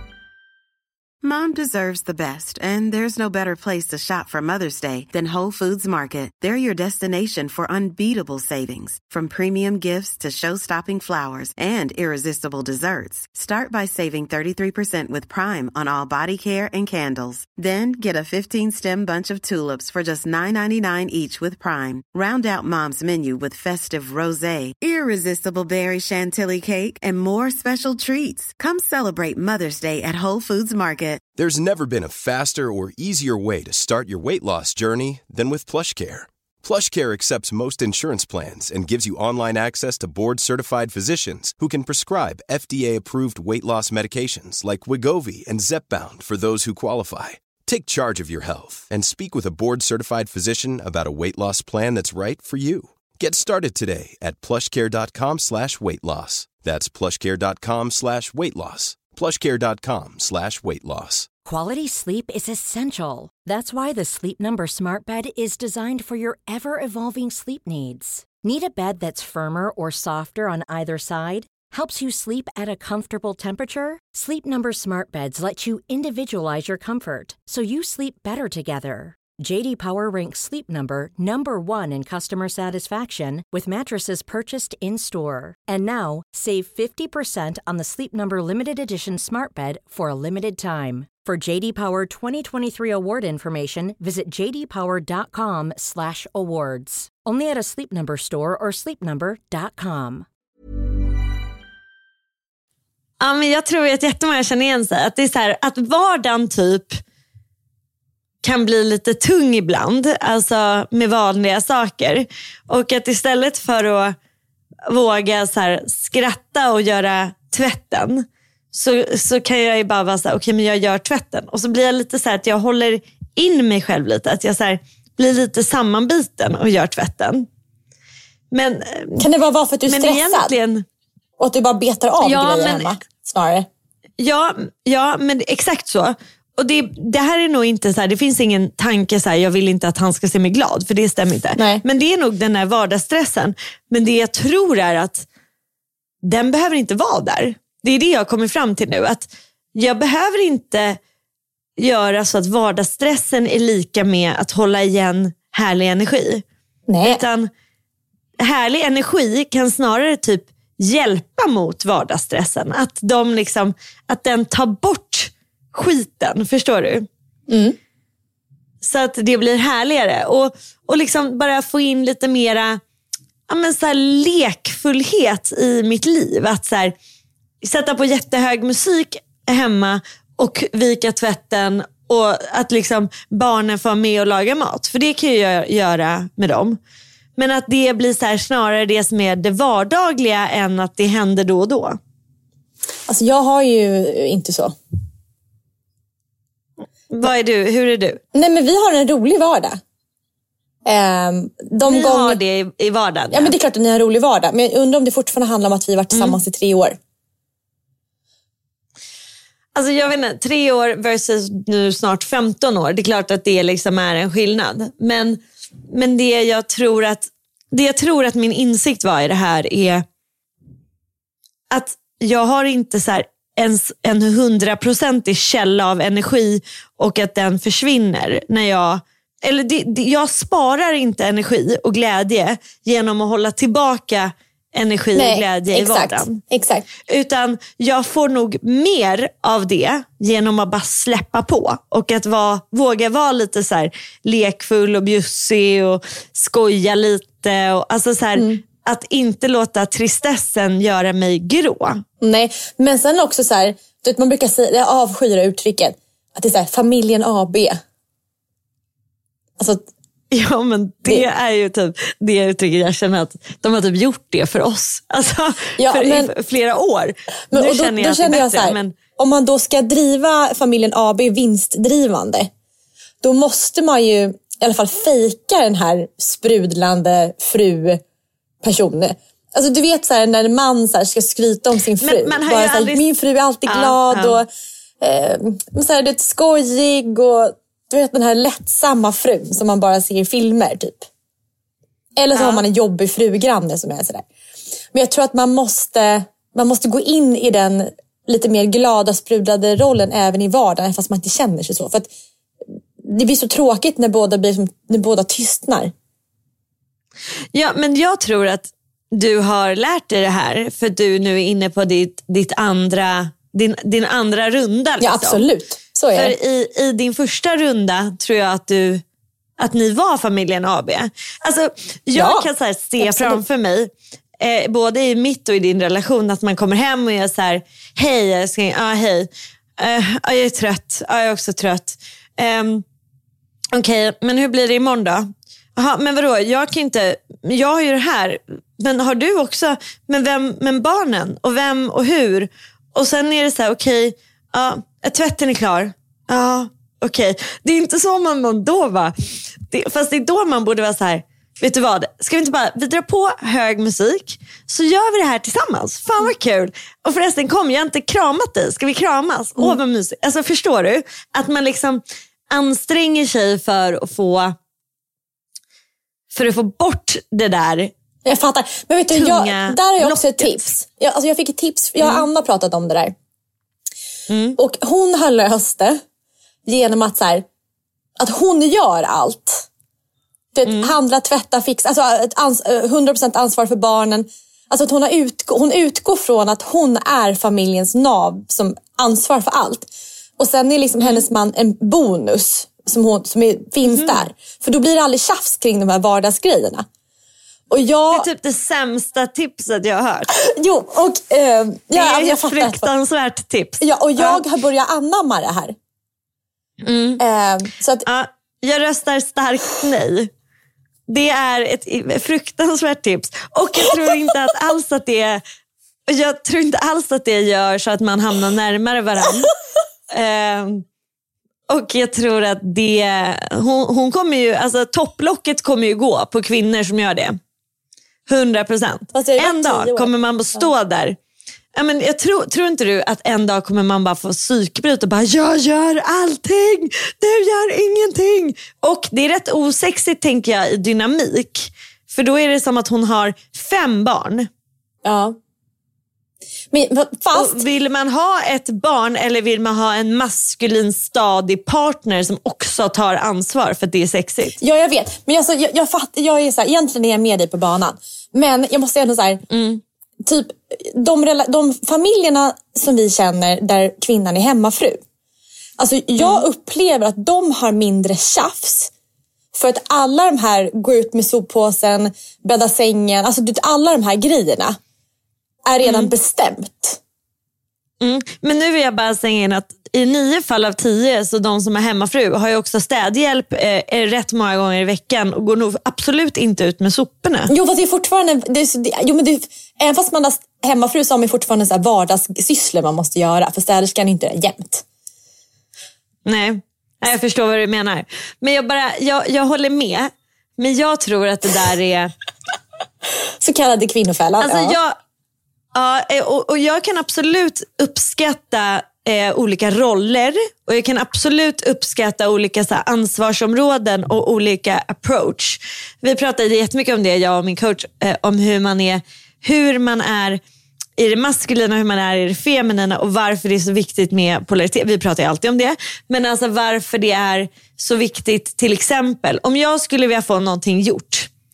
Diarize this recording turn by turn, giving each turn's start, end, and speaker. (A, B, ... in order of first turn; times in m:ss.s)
0:01.2-0:31.2 A
0:31.4-1:01.3 B
1:01.4-1:40.3 C
1:43.2-1:47.0 D
1:48.4-1:54.2 D
1:54.9-2:07.5 D
2:08.5-2:09.3 D
2:09.2-2:10.5 E
2:09.9-2:10.8 D
2:11.4-2:13.7 E
2:12.2-2:13.0 D
2:14.2-2:25.3 D
2:21.6-2:21.8 E
2:26.2-2:31.0 D
2:31.8-2:36.4 D
2:36.9-2:37.2 E
2:37.0-2:37.5 D
2:38.4-2:47.1 D
2:47.5-2:47.8 E
2:48.8-2:52.8 D
2:53.5-2:56.9 D
2:57.6-3:06.8 D
3:07.4-3:12.0 D
3:13.1-3:14.8 E
3:17.1-3:18.2 D
3:18.3-3:19.8 E
3:20.8-3:22.4 E
3:21.9-3:23.5 D
3:23.3-3:27.0 E
3:29.8-3:40.0 D
3:41.7-3:56.4 D
3:55.2-3:56.9 E
3:57.1-4:12.0 D
4:12.2-4:17.8 E
4:19.6-4:19.9 E
4:20.3-4:28.9 D
4:25.8-4:26.3 E
4:27.5-4:32.5 E
4:33.2-4:38.0 E
4:38.6-4:44.5 E
4:42.0-4:43.0 D
4:43.7-4:44.4 D
4:45.0-4:51.1 E
4:52.2-4:54.3 E
4:52.3-4:52.6 D
4:54.9-5:02.1 E
5:03.0-5:05.9 E
5:07.5-5:15.4 D
5:15.0-5:16.3 E
5:16.1-5:19.0 D
5:19.6-5:32.8 D
5:22.2-5:22.5 E
5:23.0-5:23.4 E
5:33.7-6:04.6 D
6:06.3-6:07.9 D
6:08.2-6:13.1 E
6:09.1-6:10.8 D
6:12.0-6:12.3 D
6:14.3-6:14.6 D
6:14.6-6:16.0 E
6:16.6-6:17.5 E
6:18.2-6:19.7 E
6:20.6-6:36.9 E
6:20.6-6:20.9 D
6:33.8-6:34.2 D
6:37.7-6:38.3 E
6:38.1-6:40.3 D
6:40.4-6:42.9 E
6:41.9-6:44.4 D
6:43.8-6:45.8 E
6:46.8-6:47.2 D
6:47.2-6:48.0 E
6:48.1-6:50.3 D
6:51.1-6:55.4 D
6:56.1-6:59.5 D
7:00.1-7:00.8 D
7:01.7-7:07.4 D
7:08.3-7:11.2 D
7:09.1-7:10.7 E
7:11.8-7:24.5 D
7:25.0-7:25.4 E
7:26.7-7:27.6 E
7:27.3-7:34.6 D
7:34.6-7:39.4 E
7:39.5-7:39.8 D
7:40.2-7:45.0 E
7:45.8-7:48.9 E
7:46.2-7:46.4 D
7:49.5-7:54.8 E
7:55.6-7:57.0 E
7:55.8-7:56.1 D
7:58.0-8:07.5 D
8:07.5-8:14.8 E
8:16.3-8:22.1 D
8:23.4-8:24.8 E
8:24.4-8:25.0 D
8:25.7-8:40.4 D
8:41.0-8:51.3 D